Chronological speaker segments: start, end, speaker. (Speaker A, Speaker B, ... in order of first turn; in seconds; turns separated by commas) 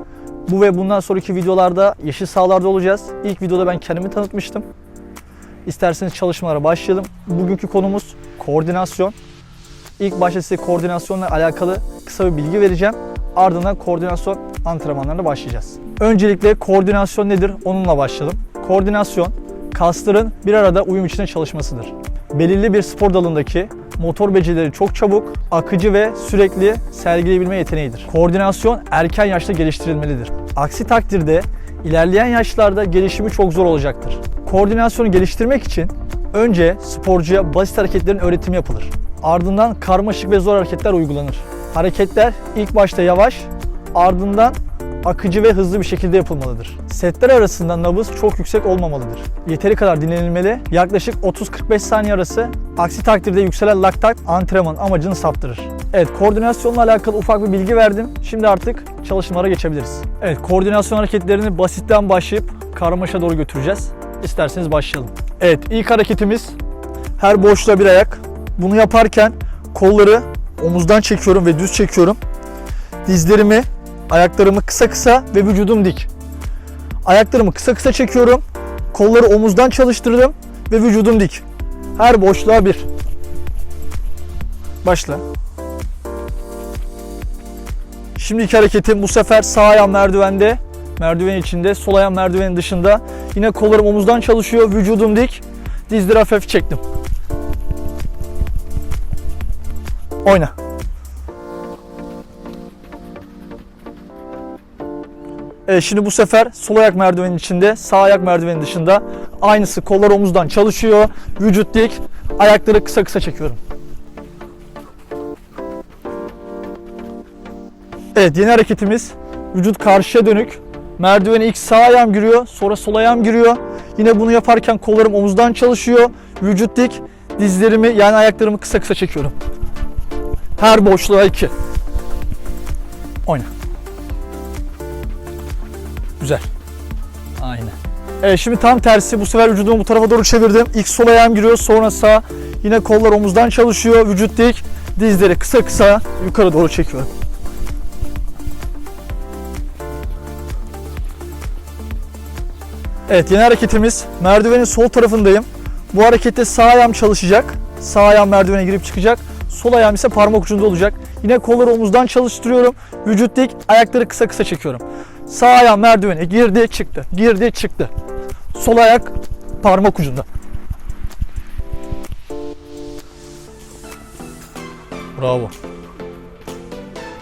Speaker A: 0.5-4.7, Speaker A: 5.7-9.2, Speaker A: 10.0-66.5, Speaker A: 67.2-72.2, Speaker A: 73.0-76.1, Speaker A: 77.0-81.4, Speaker A: 82.0-82.8, Speaker A: 84.8-85.2, Speaker A: 88.2-96.8, Speaker A: 100.2-100.5, Speaker A: 105.7-113.6, Speaker A: 118.1-129.3, Speaker A: 130.6-131.5, Speaker A: 136.2-136.5, Speaker A: 137.4-147.1, Speaker A: 153.1-167.9, Speaker A: 168.5-170.2, Speaker A: 175.2-175.5